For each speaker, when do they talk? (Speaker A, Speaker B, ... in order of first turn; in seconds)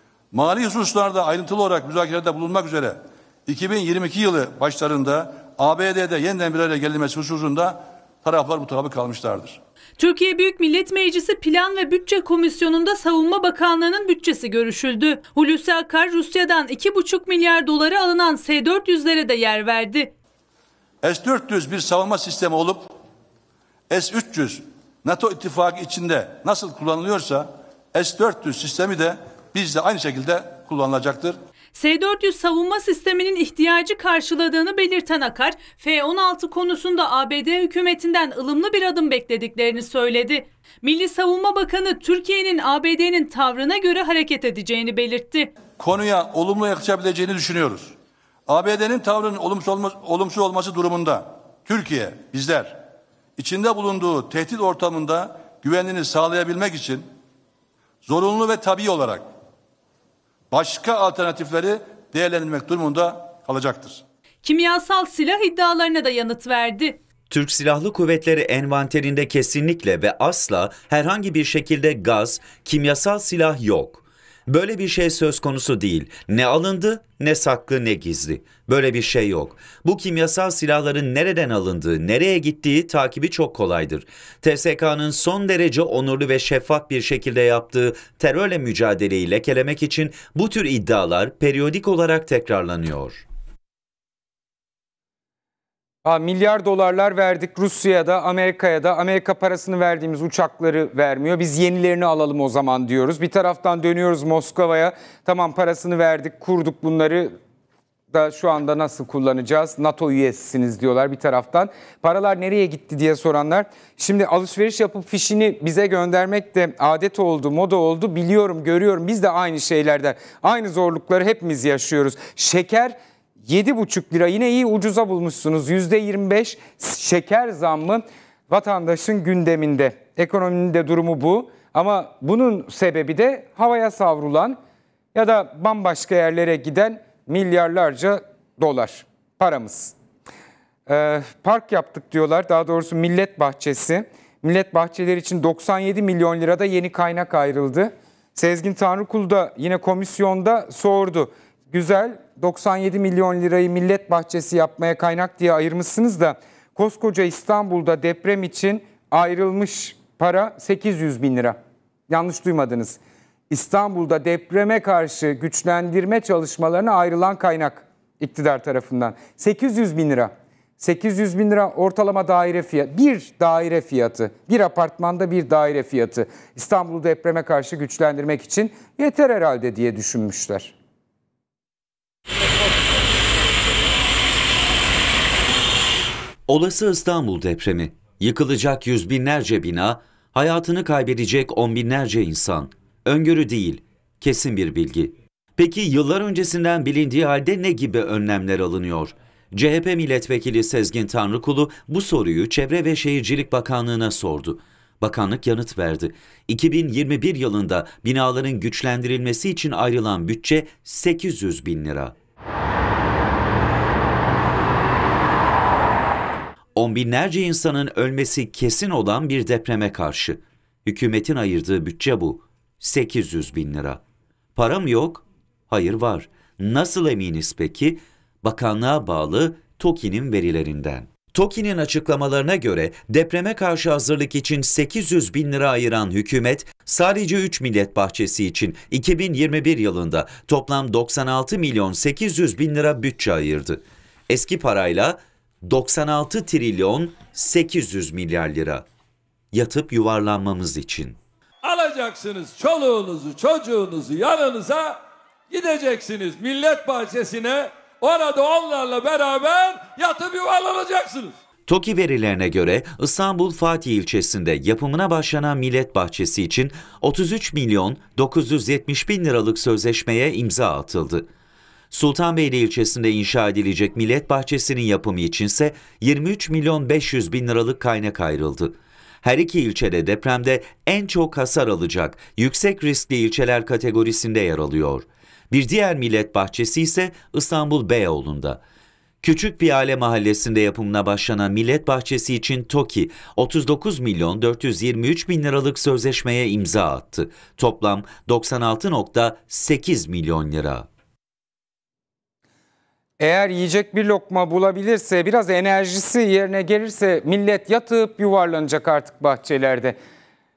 Speaker A: 0.3-9.6, 21.0-22.9, 23.9-31.4, 45.8-47.9, 48.5-52.8, 53.4-57.1, 58.0-59.2, 60.5-64.0
Speaker B: 10.0-20.1, 31.8-45.5, 64.4-67.0
Speaker C: 67.3-93.2, 186.5-212.1, 216.8-224.0, 224.6-248.9, 249.5-251.2, 261.7-271.3, 271.9-288.6, 289.2-300.9
Speaker D: 96.0-107.3, 108.1-122.9, 123.4-134.6, 135.1-139.9, 140.9-161.6, 162.1-180.7, 303.2-310.0
Speaker E: 251.6-254.9, 255.5-261.3